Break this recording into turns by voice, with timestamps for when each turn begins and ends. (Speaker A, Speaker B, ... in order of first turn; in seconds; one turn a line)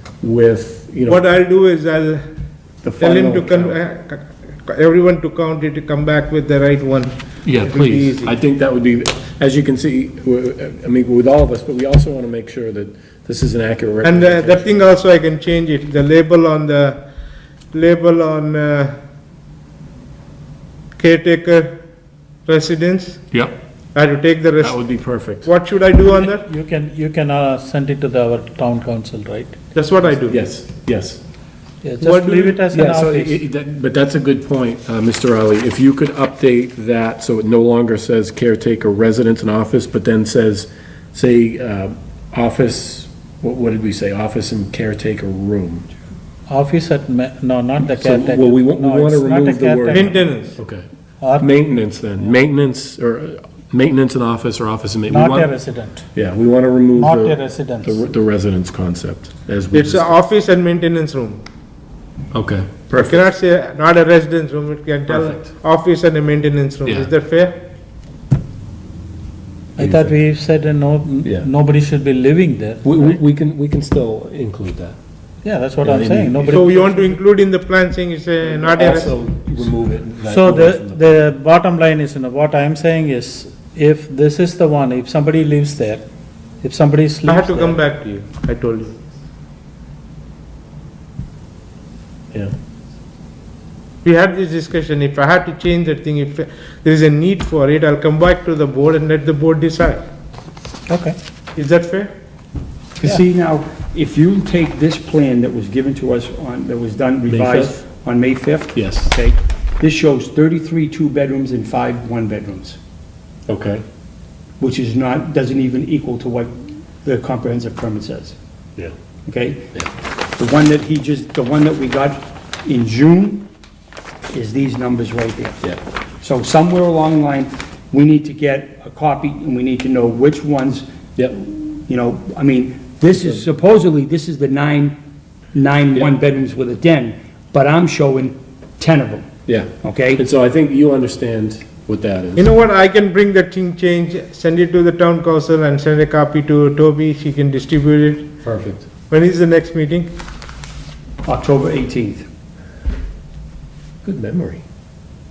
Speaker A: 0.2-1.2
Speaker B: 1.1-2.2
Speaker C: 2.9-3.7
Speaker B: 3.0-8.3
Speaker A: 3.2-3.5
Speaker A: 7.4-14.7
Speaker B: 14.0-17.0
Speaker B: 17.7-18.9
Speaker B: 21.0-21.8
Speaker B: 22.5-23.2
Speaker B: 23.9-26.4
Speaker A: 24.6-25.5
Speaker D: 26.0-29.6
Speaker B: 29.8-30.4
Speaker A: 30.3-31.2
Speaker D: 31.8-33.4
Speaker B: 32.0-32.6
Speaker A: 32.7-45.9
Speaker D: 46.5-50.4
Speaker A: 47.9-50.8
Speaker B: 49.9-50.6
Speaker D: 51.2-51.7
Speaker A: 51.4-55.5
Speaker D: 55.1-56.1
Speaker A: 56.1-60.1
Speaker D: 57.0-58.0
Speaker B: 59.7-61.4
Speaker A: 62.3-63.3
Speaker B: 63.0-67.6
Speaker A: 65.1-65.5
Speaker D: 69.8-73.1
Speaker A: 69.8-70.1
Speaker A: 72.8-75.0
Speaker D: 75.4-77.2
Speaker A: 75.8-76.6
Speaker B: 76.5-79.1
Speaker A: 78.6-81.2
Speaker D: 80.2-86.1
Speaker D: 86.6-87.8
Speaker B: 87.3-89.0
Speaker B: 94.0-100.0
Speaker D: 100.9-101.2
Speaker B: 101.5-102.1
Speaker C: 103.0-112.8
Speaker A: 107.3-107.8
Speaker A: 108.8-109.1
Speaker A: 113.5-113.8
Speaker C: 114.6-118.4
Speaker C: 119.3-119.8
Speaker C: 120.4-123.5
Speaker C: 124.3-135.0
Speaker C: 135.5-139.3
Speaker A: 139.5-142.5
Speaker C: 139.8-140.2
Speaker B: 142.4-148.3
Speaker A: 148.4-148.9
Speaker B: 149.1-150.1
Speaker C: 151.2-152.3
Speaker A: 154.0-154.6